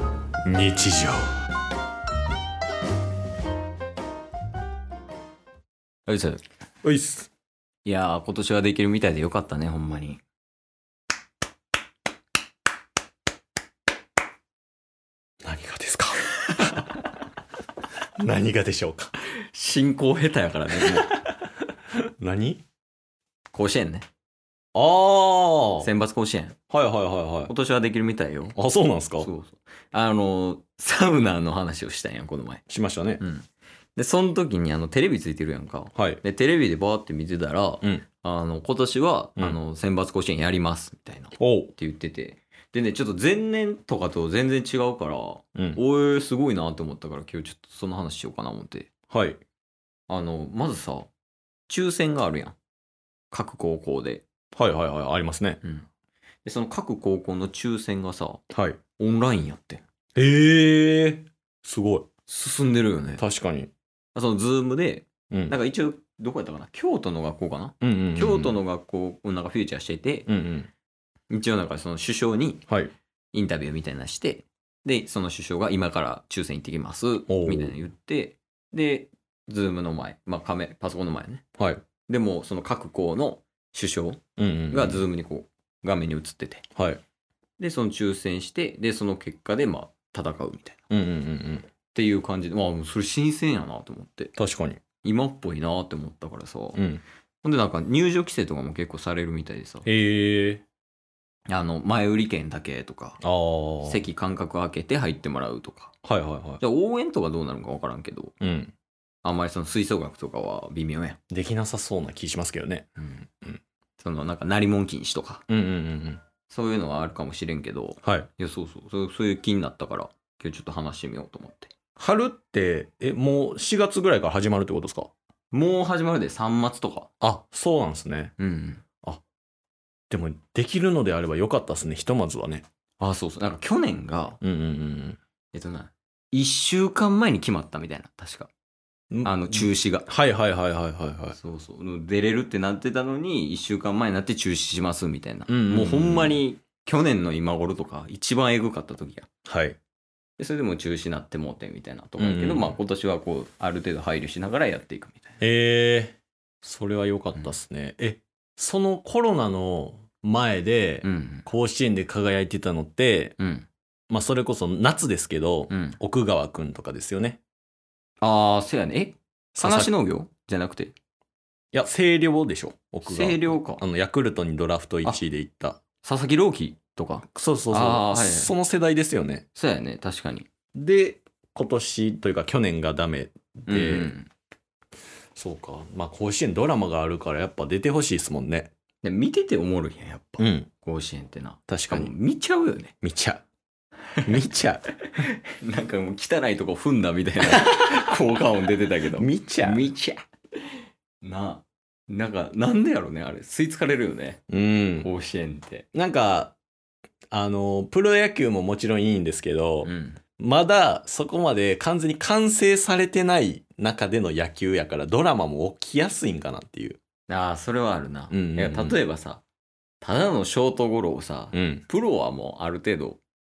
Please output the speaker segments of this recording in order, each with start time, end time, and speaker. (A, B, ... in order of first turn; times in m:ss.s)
0:00.4-0:01.2 A
0:06.1-0:06.4 B
0:06.8-0:07.3 A
0:07.8-0:10.2 B
0:15.4-0:16.9 A
0:18.2-0:19.1 A
0:19.3-0:21.1 B
0:20.8-0:21.4 A
0:21.9-0:22.6 A
0:23.5-0:24.1 B
0:24.7-0:25.9 A
0:25.8-0:26.6 B
0:26.7-0:27.5 A
0:27.5-0:28.6 B
0:28.6-0:29.3 A
0:29.2-0:32.6 B
0:32.7-0:33.2 A
0:33.2-0:48.9 B
0:36.0-0:36.2 A
0:41.4-0:41.7 A
0:49.1-0:49.4 A
0:50.1-0:51.1 B
0:51.7-0:52.6 B
0:53.3-0:54.2 B
0:54.5-0:55.6 A
0:55.6-0:55.9 B
0:56.4-0:58.4 B
0:58.5-0:58.8 A
0:59.0-0:59.8 B
1:00.2-1:02.1 A
1:02.3-1:03.2 B
1:03.1-1:03.7 A
1:04.2-1:10.3 B
1:07.8-1:08.6 A
1:10.3-1:10.7 A
1:11.3-1:12.7 B
1:13.3-1:21.4 B
1:17.3-1:17.8 A
1:22.1-1:26.6 B
1:24.4-1:25.0 A
1:26.8-1:27.0 A
1:27.6-1:30.8 B
1:30.9-1:31.7 A
1:31.9-1:34.3 B
1:34.4-1:34.8 A
1:35.0-1:36.8 B
1:36.8-1:37.0 A
1:37.4-1:39.9 B
1:39.8-1:40.6 A
1:41.5-1:43.2 B
1:43.2-1:44.0 A
1:43.8-1:45.9 B
1:46.0-1:46.6 A
1:46.6-1:48.3 B
1:48.4-1:48.7 A
1:49.2-1:51.2 B
1:51.3-1:52.9 A
1:53.0-1:53.3 B
1:54.0-1:55.4 B
1:55.5-1:56.2 A
1:56.5-2:01.7 B
1:58.0-1:58.3 A
2:02.0-2:05.1 A
2:05.5-2:07.1 B
2:07.2-2:08.3 A
2:08.4-2:08.8 B
2:10.1-2:12.6 A
2:13.0-2:14.4 B
2:14.4-2:15.2 A
2:15.5-2:18.5 B
2:19.1-2:21.4 A
2:19.2-2:20.1 B
2:21.3-2:29.3 B
2:25.5-2:26.4 A
2:29.5-2:29.8 A
2:30.4-2:35.4 B
2:32.2-2:32.8 A
2:35.4-2:43.4 A
2:41.0-2:41.5 B
2:43.4-2:43.7 B
2:44.1-2:47.4 A
2:45.7-2:46.0 B
2:48.2-2:51.0 B
2:49.6-2:49.9 A
2:51.7-2:55.8 A
2:53.0-2:53.8 B
2:56.0-2:58.5 B
2:57.3-2:59.4 A
2:59.6-3:00.5 B
3:00.8-3:04.1 A
3:03.7-3:04.3 B
3:05.4-3:08.7 A
3:09.0-3:12.9 B
3:10.4-3:10.7 A
3:11.7-3:12.1 A
3:13.0-3:13.4 A
3:14.3-3:14.9 A
3:15.2-3:20.2 B
3:17.5-3:18.0 A
3:19.2-3:19.9 A
3:21.2-3:24.4 B
3:24.5-3:25.1 A
3:25.0-3:25.9 B
3:25.9-3:26.6 A
3:27.3-3:37.0 A
3:29.8-3:30.2 B
3:37.3-3:39.4 B
3:38.3-3:39.0 A
3:40.0-3:43.2 B
3:41.5-3:41.8 A